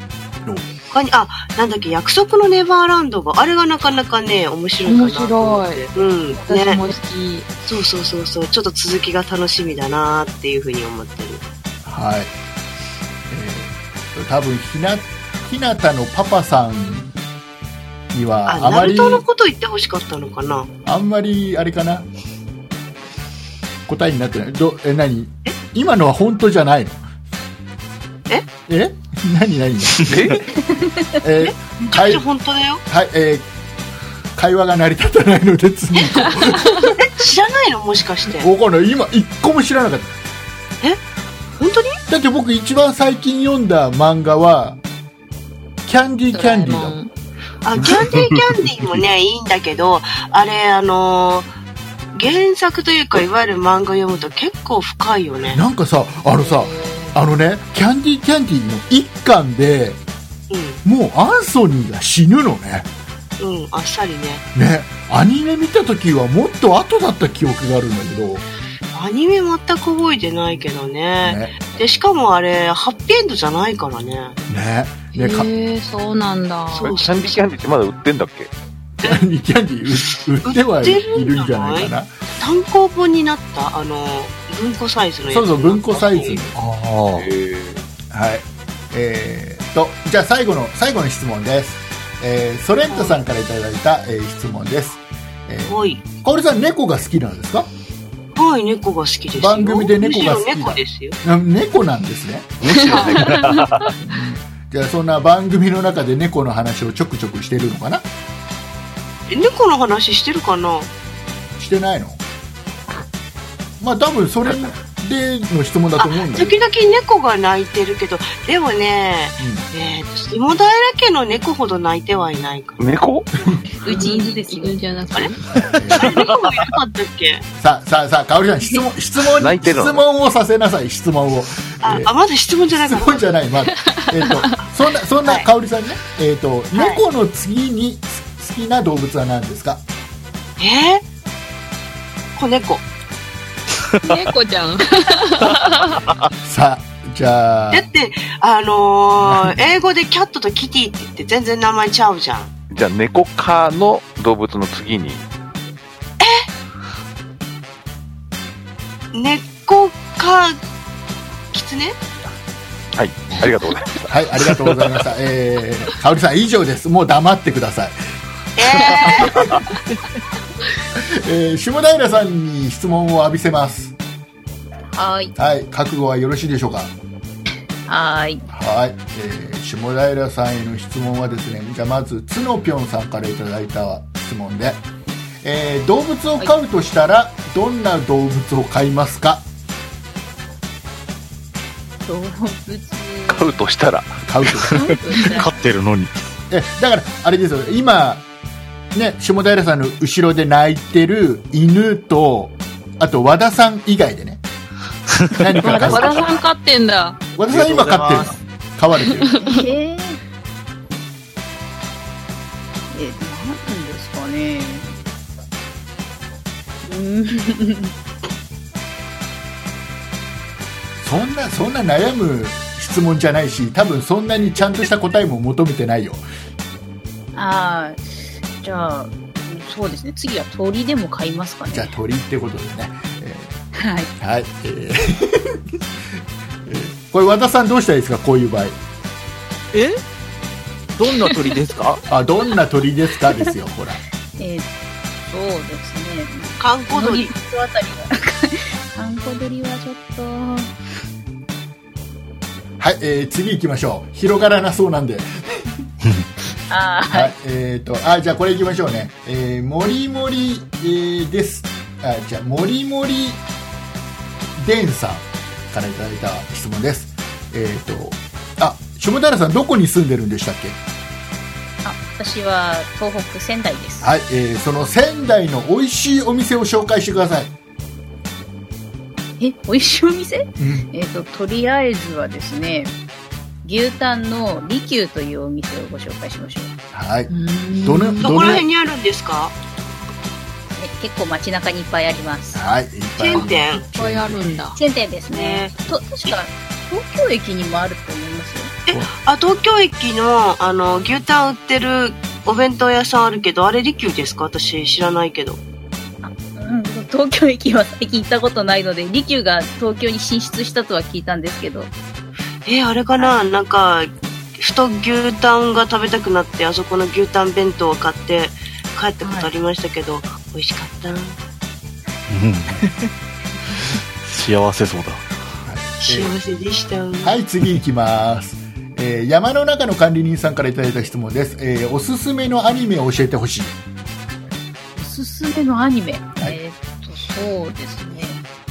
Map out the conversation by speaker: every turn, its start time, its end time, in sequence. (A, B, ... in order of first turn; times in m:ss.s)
0:00.9-0:06.8 A
0:04.8-0:07.5 B
0:07.6-0:11.4 A
0:11.8-0:12.3 C
0:13.3-0:17.1 C
0:18.1-0:19.2 C
0:18.5-0:20.7 A
0:20.8-0:22.1 C
0:23.9-0:27.0 C
0:28.7-0:30.5 C
0:30.1-0:30.4 D
0:30.6-0:31.0 E
0:31.2-0:32.2 C
0:31.4-0:32.8 A
0:32.9-0:33.5 C
0:34.3-0:37.0 C
0:37.0-0:38.5 A
0:38.4-0:40.2 C
0:41.6-0:42.0 A
0:42.1-0:44.8 C
0:45.8-0:47.0 C
0:46.3-0:47.1 B
0:47.6-0:51.5 A
0:52.1-0:55.6 A
0:55.5-1:00.0 C
0:56.4-0:57.2 B
1:00.5-1:00.8 A
1:00.8-1:02.9 C
1:03.4-1:04.4 A
1:04.5-1:08.4 C
1:08.9-1:14.4 A
1:11.2-1:11.6 C
1:14.5-1:15.5 C
1:15.1-1:17.0 B
1:16.7-1:17.4 A
1:16.8-1:18.5 D
1:19.0-1:22.1 C
1:20.4-1:26.4 A
1:25.3-1:26.6 C
1:26.5-1:27.3 F
1:27.1-1:27.8 D
1:28.1-1:37.7 C
1:32.9-1:33.2 A
1:35.7-1:36.0 A
1:38.3-1:41.2 A
1:39.4-1:43.3 C
1:42.8-1:43.9 F
1:42.9-1:43.5 B
1:44.0-1:48.0 C
1:49.3-1:50.9 A
1:51.6-1:52.2 C
1:53.8-1:56.5 C
1:56.0-2:02.8 A
1:59.4-1:59.7 C
2:02.8-2:03.3 D
2:03.8-2:05.2 E
2:03.8-2:05.4 B
2:05.5-2:06.2 C
2:05.9-2:07.4 A
2:07.6-2:12.1 C
2:09.4-2:10.0 D
2:11.8-2:13.2 A
2:12.7-2:19.8 C
2:16.7-2:17.0 A
2:20.6-2:21.0 A
2:22.4-2:22.8 A
2:24.0-2:26.0 B
2:26.4-2:27.8 C
2:27.7-2:32.5 A
2:32.7-2:35.2 D
2:36.2-2:36.4 A
2:39.1-2:40.6 A
2:41.5-2:42.0 A
2:42.9-2:44.1 D
2:44.1-2:48.0 C
2:48.6-2:49.4 A
2:49.0-2:49.6 C
2:51.0-2:53.9 C
2:54.9-2:55.3 E
2:55.4-2:56.9 C
2:57.9-2:58.5 E
2:58.5-3:04.8 C
3:05.4-3:09.4 C
3:12.0-3:13.6 E
3:13.3-3:14.2 D
3:14.2-3:14.9 C
3:14.7-3:15.6 E
3:14.7-3:16.1 F
3:16.5-3:18.2 C
3:18.9-3:24.4 C
3:25.3-3:26.4 C
3:25.6-3:27.2 B
3:27.4-3:29.4 C
3:27.5-3:28.4 G
3:29.4-3:30.2 E
3:32.9-3:35.0 E
3:36.8-3:37.9 E
3:41.0-3:46.2 C
3:47.3-3:51.9 E
3:51.7-3:53.6 C
3:53.8-3:54.1 E
3:54.2-3:55.6 C
3:56.6-3:58.8 C
3:59.7-4:00.0 G
4:00.9-4:02.0 G
4:02.1-4:04.0 C
4:04.4-4:04.7 E
4:05.2-4:10.7 E
4:06.6-4:07.3 A
4:12.8-4:15.7 C
4:16.7-4:17.3 E
4:17.1-4:23.4 C
4:24.6-4:30.8 C
4:31.8-4:34.1 E
4:34.0-4:37.5 C
4:39.4-4:42.9 E
4:40.6-4:40.9 C
4:43.6-4:46.7 E
4:46.9-4:48.6 C
4:47.3-4:48.5 B
4:48.2-4:49.5 A
4:50.8-4:52.6 E
4:52.5-4:54.5 C
4:53.2-4:53.8 A
4:53.4-4:54.8 B
4:54.7-4:58.7 E
4:55.3-4:56.4 A
4:58.9-5:05.6 A
5:06.2-5:11.9 E
5:12.6-5:21.4 A
5:19.2-5:19.5 E
5:22.3-5:22.8 F
5:24.2-5:25.3 F
5:25.6-5:26.4 C
5:26.0-5:27.4 A
5:27.2-5:33.7 C
5:35.0-5:38.4 E